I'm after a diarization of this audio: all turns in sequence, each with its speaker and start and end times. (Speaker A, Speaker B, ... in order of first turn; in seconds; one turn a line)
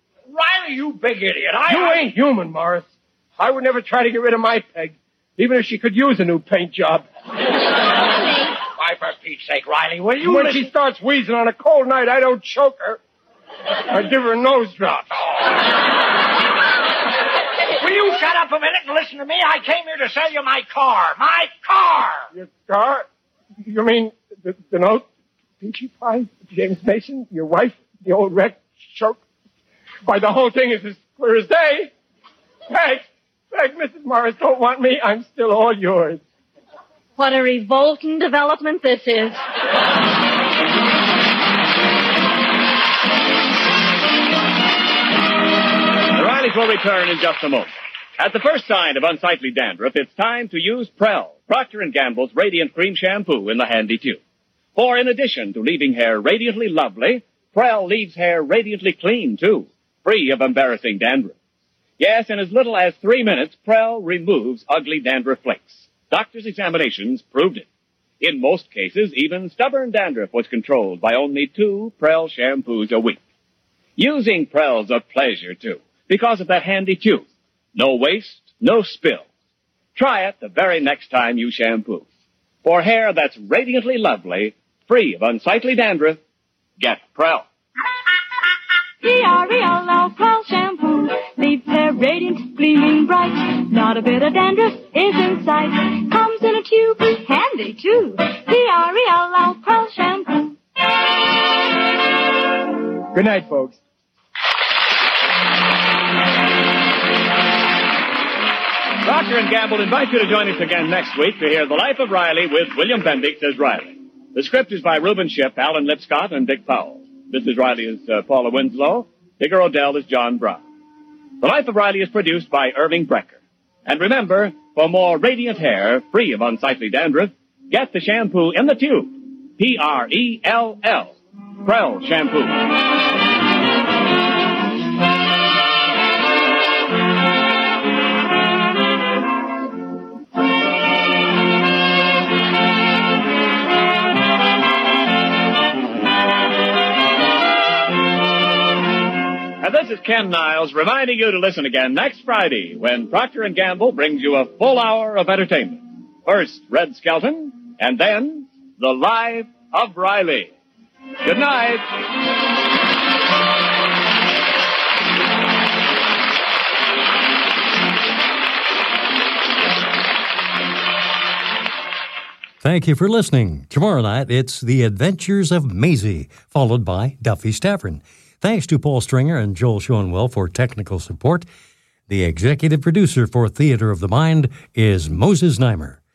Speaker A: 0.3-2.0
Speaker B: 1.6-7.0
Speaker A: 8.7-10.7
Speaker B: 10.2-13.0
Speaker B: 13.9-15.3
Speaker A: 17.8-22.3
Speaker B: 22.3-23.1
Speaker B: 23.6-25.1
Speaker B: 25.6-29.2
Speaker B: 30.1-31.9
Speaker B: 32.7-36.2
Speaker C: 37.2-39.4
Speaker D: 46.1-54.2
Speaker D: 54.7-61.3
Speaker D: 62.0-67.7
Speaker D: 68.2-73.2
Speaker D: 74.0-79.3
Speaker D: 79.9-82.0
Speaker D: 82.6-86.2
Speaker D: 86.8-87.5
Speaker E: 89.0-100.6
Speaker B: 103.1-103.8
Speaker D: 109.0-120.6
Speaker D: 121.4-132.7
Speaker D: 149.6-160.5
Speaker D: 161.2-161.9
Speaker F: 172.6-181.4
Speaker F: 182.1-186.0